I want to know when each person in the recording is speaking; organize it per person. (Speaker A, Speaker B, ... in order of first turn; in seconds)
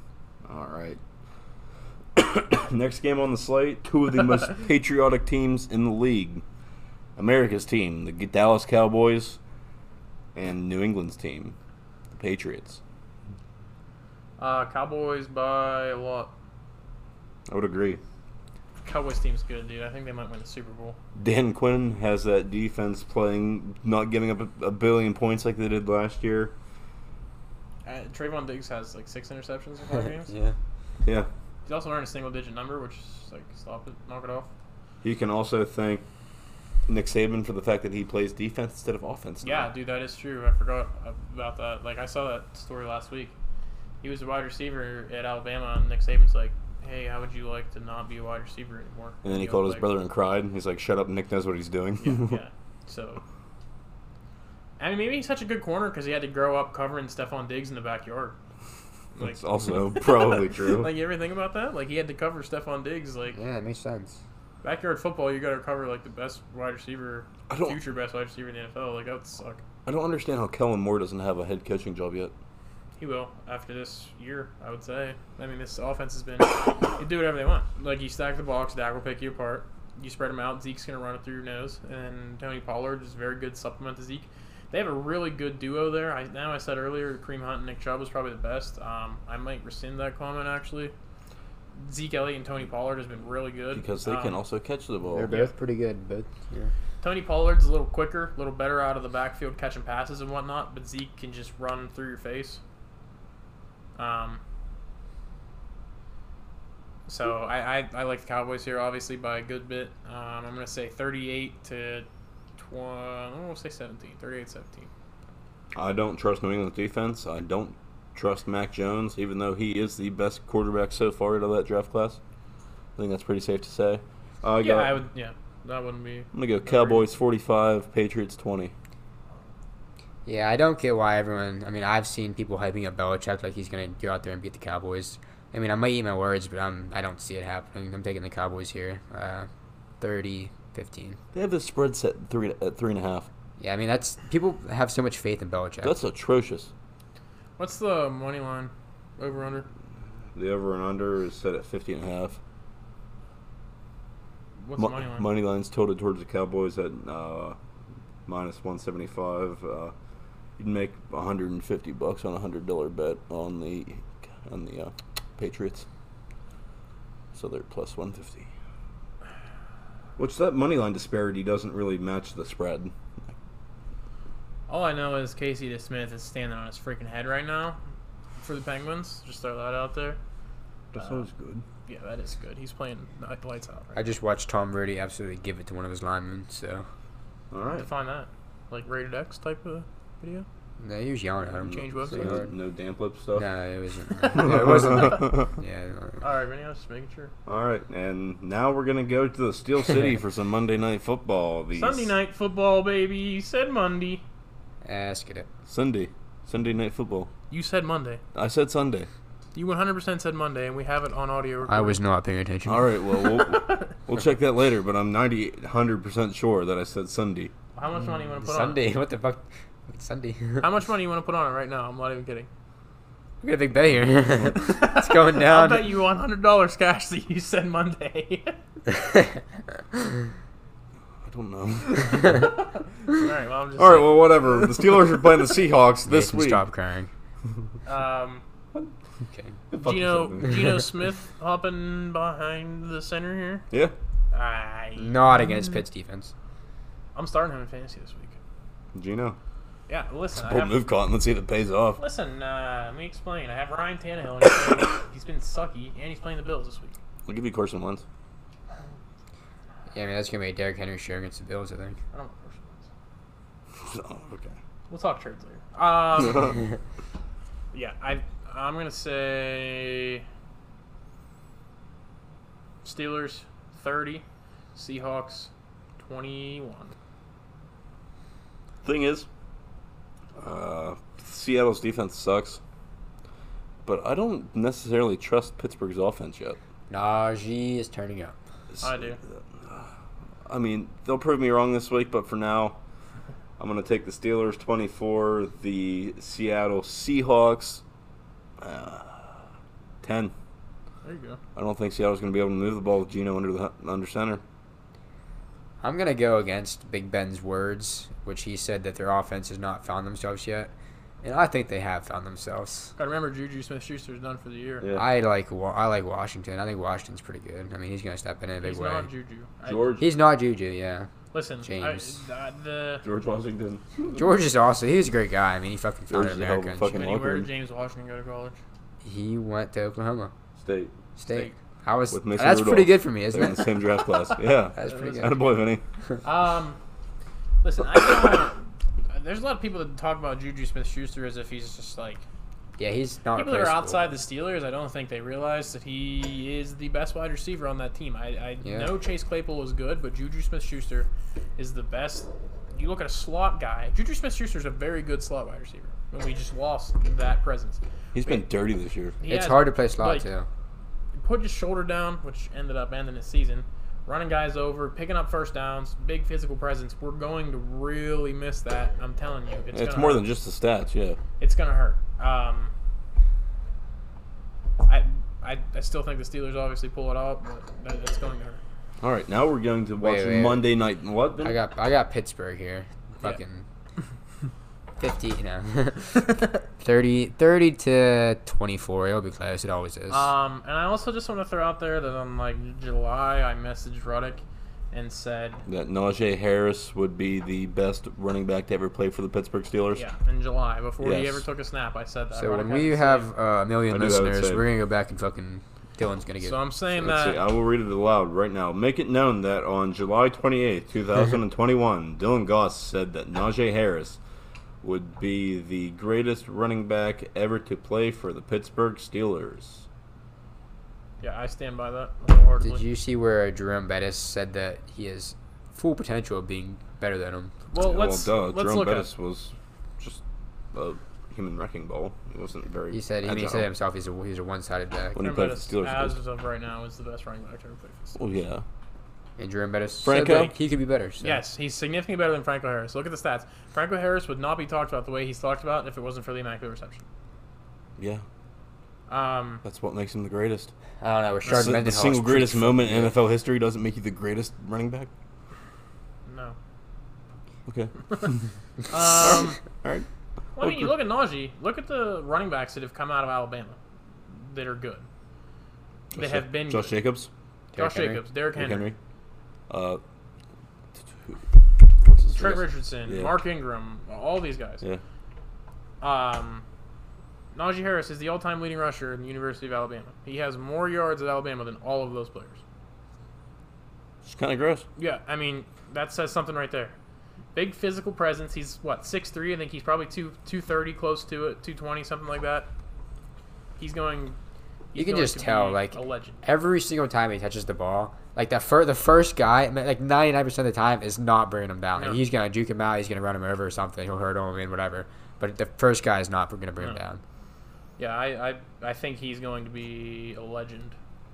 Speaker A: 0.5-1.0, 2.1-6.4, 7.2-9.4, 10.3-11.5, 12.1-12.8, 17.5-18.0, 21.1-26.5, 35.0-36.0, 36.9-39.7, 49.2-52.4, 59.2-60.9, 67.5-67.8, 69.8-72.3, 93.7-95.3, 115.7-122.2, 123.0-125.0, 126.3-128.7, 141.3-143.3, 145.8-146.7, 150.3-152.4, 154.8-157.6, 158.2-159.9, 160.6-165.8, 167.3-168.5, 170.2-172.9, 180.9-181.6, 187.5-187.9, 191.9-193.5, 194.3-195.5, 197.4-202.1, 205.7-207.3, 208.3-209.1, 212.7-217.5, 231.2-232.5, 233.8-236.6, 239.7-240.8, 248.9-249.4, 250.4-252.0, 257.3-258.0, 263.8-264.6, 278.8-279.3, 280.4-282.6, 283.8-286.6, 288.7-289.9, 290.4-292.8, 293.6-297.8, 298.6-299.4, 300.0-300.3, 301.5-304.4, 319.6-320.0, 323.0-324.2, 326.1-327.5, 330.6-330.9, 332.1-335.8, 358.1-359.2, 369.7-371.2, 379.0-381.6, 395.7-400.0, 401.0-401.4, 403.9-404.7, 407.0-414.2, 414.8-419.9, 427.8-430.2, 430.7-433.7, 435.1-436.1, 438.2-438.6, 440.0-440.5, 448.0-448.2, 449.6-450.7, 451.5-455.1, 457.7-460.1, 460.6-460.9, 466.1-467.3, 468.5-468.9, 469.7-470.0, 471.1-471.4, 472.0-473.4, 484.2-484.8
Speaker B: 14.4-16.3, 18.8-21.0, 27.8-30.3, 31.6-34.5, 39.4-43.3, 44.0-49.9, 52.0-53.2, 54.8-58.4, 59.1-59.4, 59.9-63.4, 64.6-69.6, 73.0-90.9, 91.8-94.4, 95.3-95.5, 97.0-102.6, 104.0-104.4, 107.1-112.0, 112.6-114.9, 124.6-127.1, 147.6-149.7, 154.6-155.2, 174.7-177.8, 178.4-180.2, 181.0-181.2, 181.8-184.1, 187.7-190.5, 191.6-192.4, 194.3-195.4, 196.2-197.3, 201.7-204.2, 207.5-208.2, 209.5-212.0, 213.3-213.9, 217.7-218.8, 220.6-222.5, 224.5-228.6, 233.1-234.9, 237.8-238.4, 239.8-243.7, 244.3-245.7, 247.1-248.4, 249.9-250.8, 252.0-257.0, 262.1-262.9, 264.9-266.6, 267.7-270.2, 272.8-274.2, 274.7-276.9, 288.8-289.2, 301.0-301.4, 313.0-314.9, 318.6-320.0, 321.3-323.0, 326.9-328.6, 331.3-331.6, 334.8-335.5, 336.2-336.8, 337.6-342.2, 343.3-358.4, 359.2-360.3, 361.1-370.3, 371.4-372.7, 374.9-378.6, 390.1-395.6, 399.9-403.3, 406.4-407.4, 421.2-422.8, 427.7-429.1, 435.2-438.2, 441.2-447.0, 449.1-449.6, 451.4-451.7, 456.2-456.6, 458.9-459.6, 460.6-463.8, 464.3-465.1, 466.1-466.9, 467.8-468.9, 472.3-474.8, 476.0-476.6, 477.5-482.6, 485.0-486.9, 487.5-492.7, 493.8-494.4, 494.9-496.4, 501.9-502.2, 508.0-510.9
Speaker C: 30.0-30.6, 63.3-64.2, 95.1-96.7, 130.2-139.5, 140.0-141.2, 143.6-145.9, 183.9-186.8, 190.8-192.5, 193.3-196.2, 204.8-205.5, 211.6-212.9, 218.0-220.7, 223.4-225.9, 228.9-229.4, 236.1-237.1, 239.3-239.6, 245.0-246.3, 259.9-262.0, 286.9-288.4, 305.8-310.7, 311.2-312.9, 314.9-319.1, 320.0-321.1, 321.6-322.2, 324.1-327.1, 329.0-330.3, 331.2-333.7, 334.8-335.3, 342.8-344.1, 348.6-348.9, 359.2-360.5, 380.0-380.7, 381.4-383.6, 385.0-390.3, 402.3-406.6, 422.6-427.5, 432.9-435.2, 439.4-441.4, 451.0-453.1, 467.7-468.2, 494.9-507.2